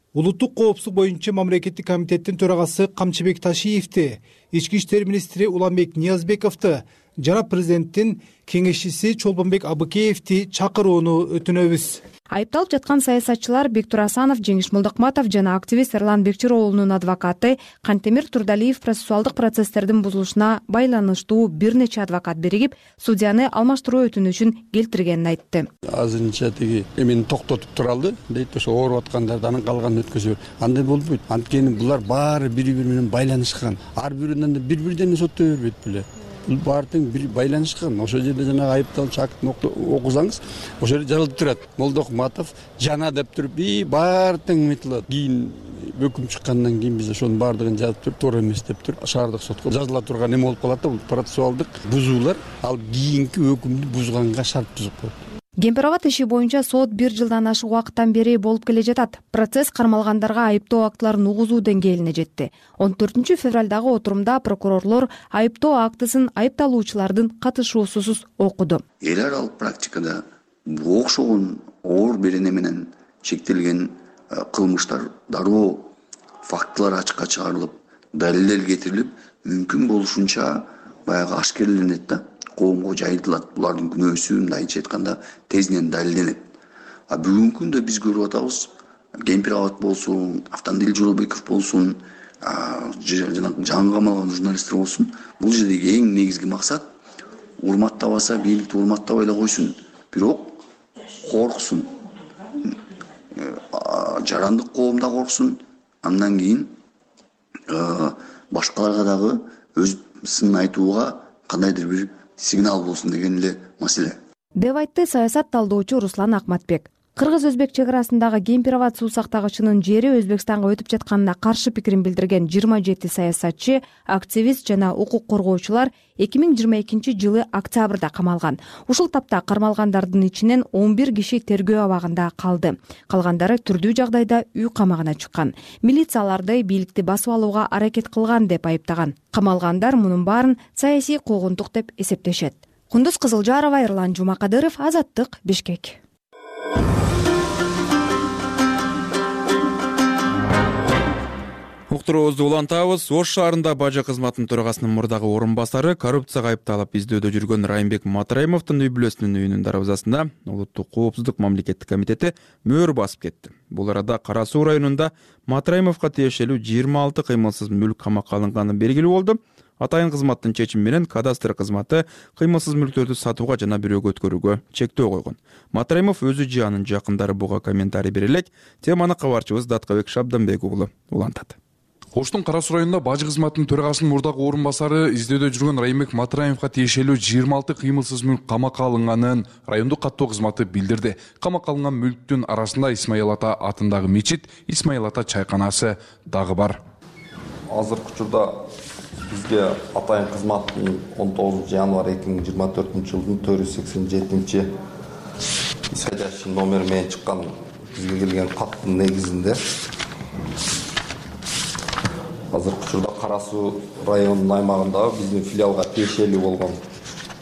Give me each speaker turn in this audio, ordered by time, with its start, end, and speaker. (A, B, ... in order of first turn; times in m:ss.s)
0:00.2-0:12.0 A
0:12.3-0:25.7 B
0:25.9-0:55.2 C
0:55.6-1:08.8 B
1:09.0-1:15.9 D
1:16.4-1:26.4 D
1:27.1-1:28.7 D
1:29.2-1:36.9 D
1:37.6-1:40.6 D
1:41.2-1:41.9 D
1:43.4-1:46.7 D
1:47.7-1:54.2 D
1:54.6-2:26.0 B
2:31.9-3:01.6 E
3:02.2-3:16.8 F
3:17.7-3:18.6 G
3:19.3-3:24.7 G
3:25.9-3:29.6 G
3:32.5-3:36.8 G